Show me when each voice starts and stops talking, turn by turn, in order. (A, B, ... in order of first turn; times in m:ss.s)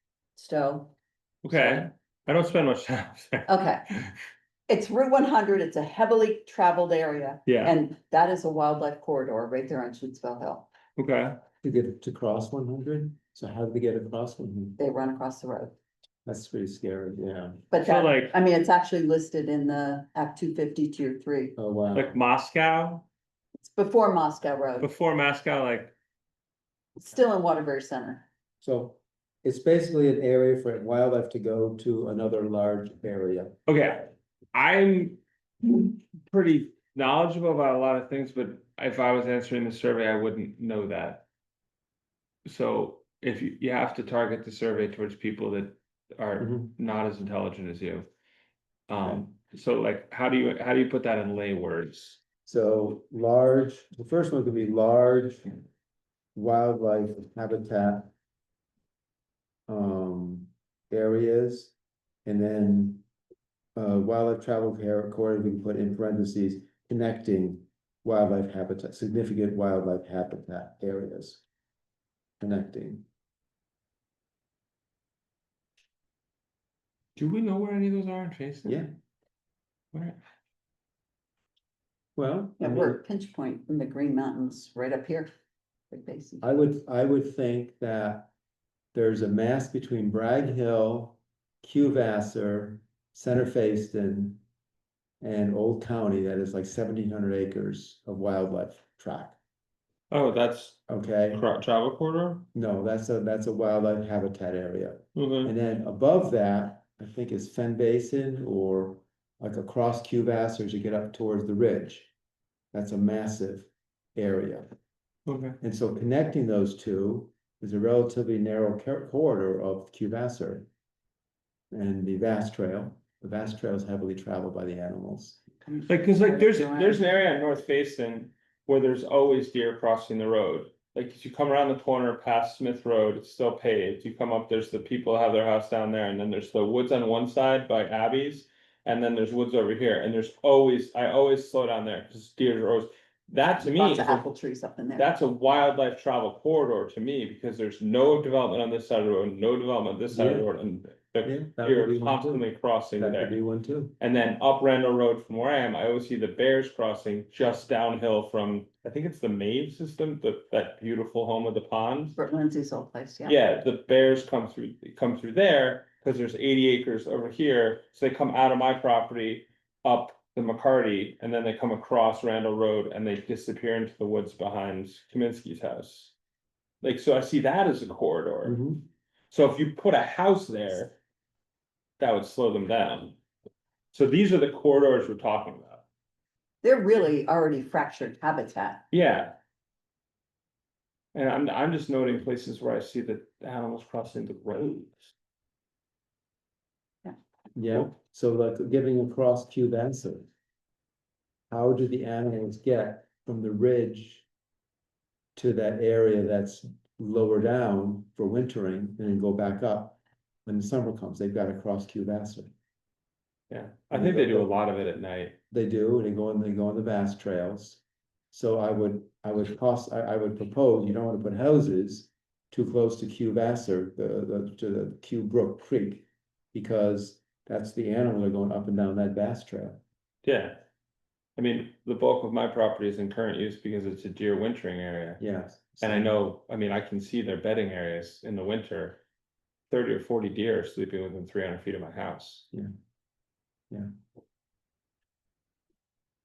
0:00.4-0:00.9 A
0:01.4-0:04.1 B
0:01.5-0:01.9 A
0:03.5-0:03.8 A
0:04.7-0:10.7 A
0:07.5-0:07.8 B
0:11.0-0:11.4 B
0:11.6-0:14.8 C
0:14.8-0:15.8 A
0:16.3-0:17.6 C
0:17.7-0:21.6 A
0:17.8-0:18.3 B
0:21.6-0:22.2 C
0:21.9-0:23.1 B
0:23.6-0:24.9 A
0:24.8-0:25.9 B
0:27.0-0:28.3 A
0:28.6-0:33.6 C
0:33.7-0:41.2 B
0:42.4-0:48.1 B
0:46.4-0:46.7 C
0:48.9-0:52.2 B
0:52.5-0:55.6 C
0:56.4-0:58.1 C
0:59.7-1:01.7 C
1:02.2-1:03.0 C
1:03.8-1:11.4 C
1:12.4-1:13.0 C
1:17.2-1:18.8 B
1:18.6-1:18.9 C
1:19.9-1:20.2 B
1:22.2-1:23.0 C
1:22.6-1:25.3 A
1:25.9-1:26.5 A
1:26.4-1:28.3 C
1:28.9-1:34.4 C
1:35.2-1:39.4 C
1:40.1-1:42.5 B
1:40.9-1:41.4 C
1:42.5-1:52.1 C
1:45.2-1:45.5 B
1:52.7-1:54.7 C
1:55.3-1:55.6 B
1:55.6-2:00.7 C
2:01.7-2:05.4 C
2:05.6-2:07.0 A
2:05.9-2:24.3 B
2:23.6-2:25.1 A
2:25.0-2:33.4 B
2:30.1-2:30.5 C
2:31.2-2:33.9 C
2:34.0-2:42.2 B
2:42.2-2:43.4 A
2:43.2-2:56.2 B
2:56.8-2:58.6 B
2:58.4-2:58.8 C
2:59.3-3:01.0 B
3:02.0-3:03.2 B
3:03.9-3:05.8 B
3:06.6-3:08.8 A
3:08.9-3:09.4 B
3:11.1-3:15.1 B
3:17.6-3:20.3 C
3:21.5-3:24.3 C
3:25.4-3:32.5 C
3:33.5-3:35.4 B
3:33.9-3:34.5 C
3:35.5-3:37.8 C
3:38.3-3:49.8 C
3:50.2-3:50.6 B
3:51.4-3:55.2 B
3:55.2-3:56.1 C
3:55.8-3:59.0 B
3:59.7-4:02.5 B